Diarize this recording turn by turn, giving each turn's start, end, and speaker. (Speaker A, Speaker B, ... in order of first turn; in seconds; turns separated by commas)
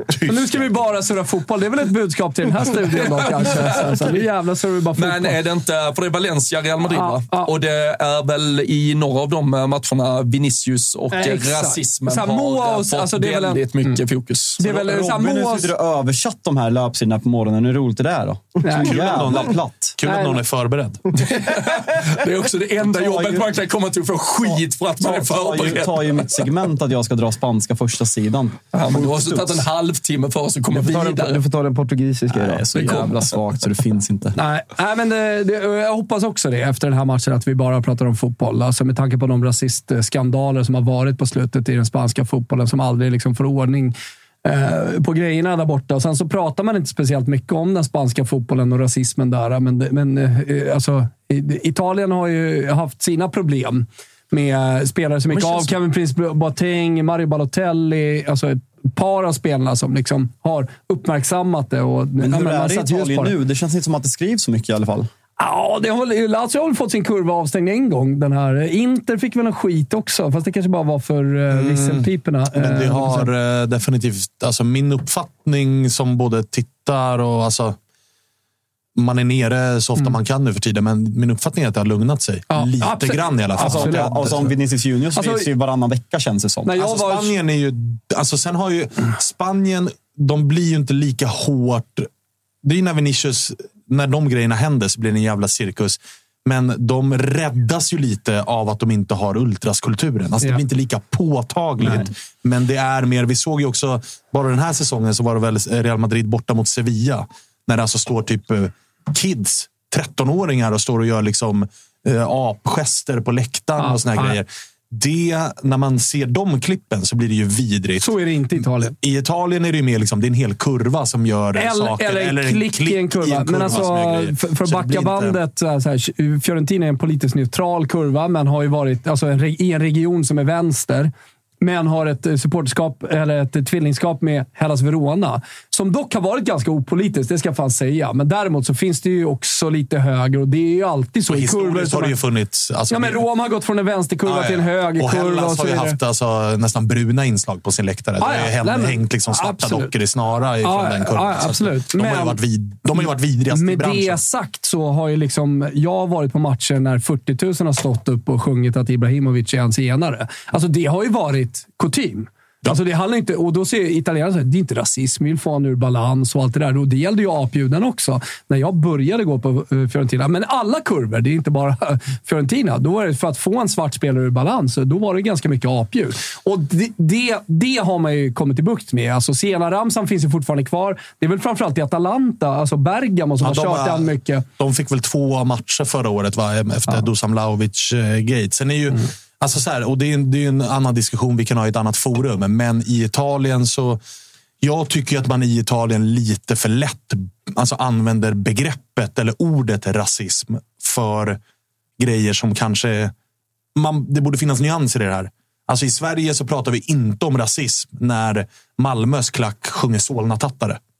Speaker A: 0.1-0.8, Speaker B: 0.2-5.4, Speaker C: 3.0-4.1, Speaker C: 5.0-14.7, Speaker B: 6.9-7.5, Speaker B: 11.1-14.0, Speaker B: 14.6-15.7, Speaker D: 14.6-20.0, Speaker B: 18.6-19.0, Speaker A: 18.8-21.0, Speaker B: 20.0-20.4, Speaker C: 21.1-26.6, Speaker D: 22.8-23.5, Speaker D: 24.4-28.7, Speaker C: 28.7-31.4, Speaker E: 29.0-29.4, Speaker E: 30.7-32.7, Speaker D: 32.3-34.4, Speaker C: 32.7-33.1, Speaker B: 34.3-63.3, Speaker C: 55.3-55.7, Speaker D: 62.2-65.1, Speaker B: 65.4-73.3, Speaker A: 71.5-77.8, Speaker A: 79.0-84.5, Speaker B: 82.5-84.3, Speaker D: 83.6-86.8, Speaker B: 85.2-85.5, Speaker B: 86.6-87.3, Speaker A: 86.7-92.1, Speaker A: 92.6-118.1, Speaker B: 113.8-114.4, Speaker B: 118.0-119.0, Speaker A: 118.6-125.4, Speaker B: 121.5-142.2, Speaker A: 141.3-143.2, Speaker B: 142.9-146.0, Speaker A: 144.2-154.2, Speaker B: 148.2-149.9, Speaker B: 150.6-152.4, Speaker B: 153.5-184.4, Speaker A: 183.4-194.0, Speaker A: 194.6-201.4, Speaker A: 202.0-203.1, Speaker A: 203.7-210.8